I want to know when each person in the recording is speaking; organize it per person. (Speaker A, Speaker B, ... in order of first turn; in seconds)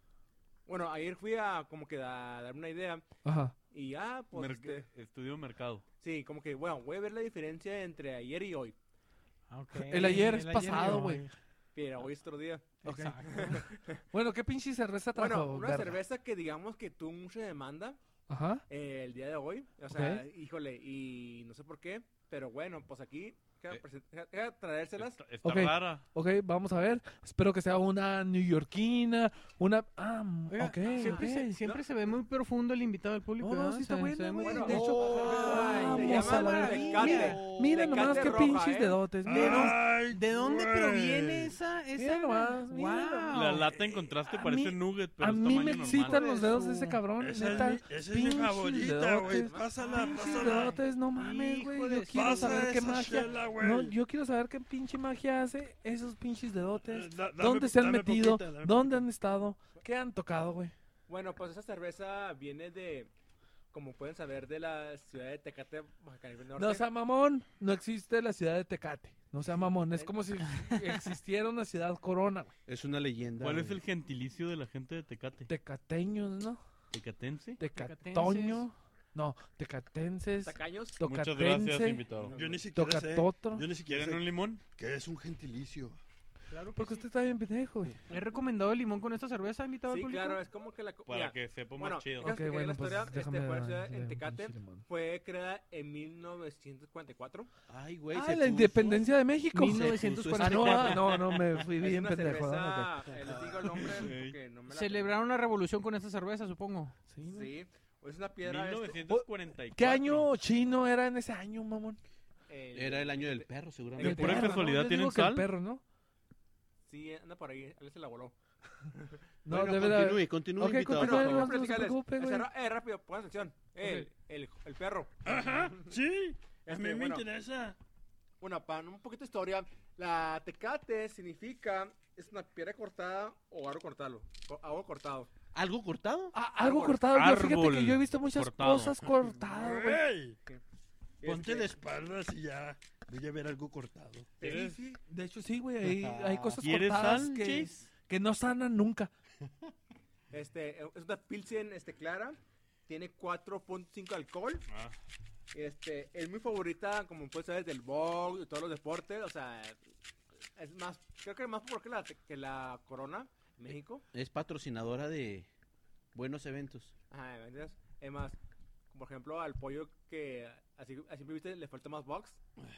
Speaker A: 0.7-3.0, 3.7-4.8, 6.0-8.8, 11.7-14.0, 15.1-18.0, 18.7-25.3, 30.9-31.8, 34.4-39.1, 49.4-50.5, 61.1-63.1, 63.7-66.8, 80.4-81.0, 82.2-82.7, 89.9-97.5, 101.6-105.1, 107.3-109.0, 112.5-114.7, 116.9-118.3, 118.9-119.2, 120.9-125.9, 126.6-127.2, 128.4-135.3, 136.6-137.0, 141.2-141.7, 144.4-145.0, 150.3-154.6, 155.5-159.8, 160.6-164.0, 167.1-168.4, 168.9-172.4
Speaker B: 3.2-3.5, 9.7-11.3, 12.8-16.0, 18.3-18.6, 19.9-20.2, 25.4-31.5, 33.4-39.8, 42.0-43.7, 44.2-49.5, 50.1-60.7, 66.5-72.5, 75.5-76.6, 77.6-82.0, 82.7-83.7, 86.8-88.0, 92.2-94.8, 98.1-102.9, 107.1-107.5, 109.1-112.0, 114.0-115.8, 119.4-122.5, 136.3-140.0, 145.1-149.1
Speaker C: 4.3-5.8, 25.0-26.0, 43.3-46.2, 73.4-75.5, 76.9-77.6, 81.0-82.3, 83.8-84.6, 91.0-92.3, 103.8-104.4, 108.4-110.3, 114.0-115.5, 137.1-139.1, 144.4-144.8, 146.6-147.8
Speaker D: 9.5-11.3, 12.8-13.6, 30.5-37.4, 39.3-43.7, 45.5-47.0, 49.8-53.0, 77.7-78.7, 86.5-87.1, 88.1-90.4, 99.5-101.2, 104.7-107.0
Speaker E: 34.8-35.5, 37.5-38.5, 39.2-41.5, 47.2-50.8, 52.1-53.9, 56.9-58.9, 82.3-86.0, 125.2-127.8, 139.5-140.4, 141.2-144.4
Speaker F: 37.0-38.4, 72.7-73.8, 97.7-99.1, 99.8-101.0, 103.1-103.9, 112.7-114.6, 119.5-121.5, 135.5-136.3, 145.8-146.6, 164.1-165.5, 166.1-166.9